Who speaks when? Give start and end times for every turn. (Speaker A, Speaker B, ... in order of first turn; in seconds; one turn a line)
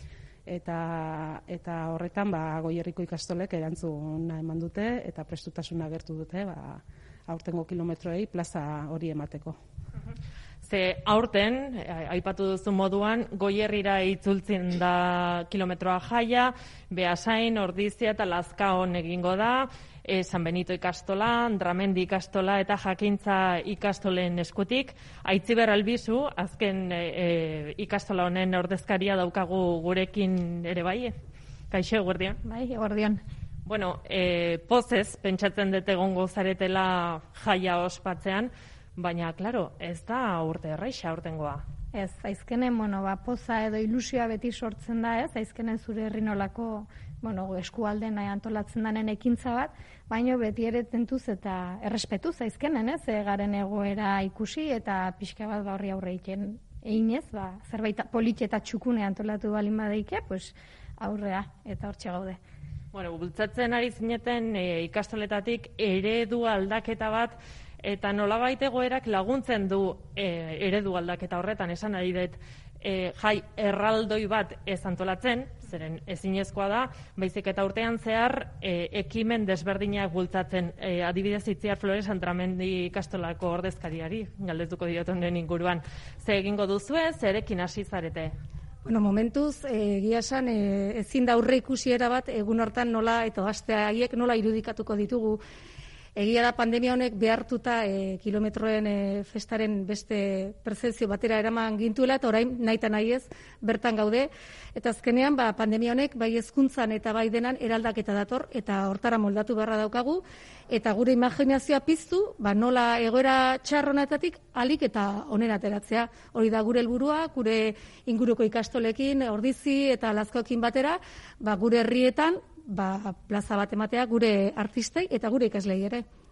Speaker A: 0.5-9.6
Speaker B: 10.6-31.1
Speaker B: 31.7-32.4
Speaker C: 32.4-33.2
Speaker B: 33.7-41.6
Speaker C: 41.9-62.4
Speaker B: 62.9-88.3
Speaker D: 88.8-95.4
Speaker D: 96.2-126.0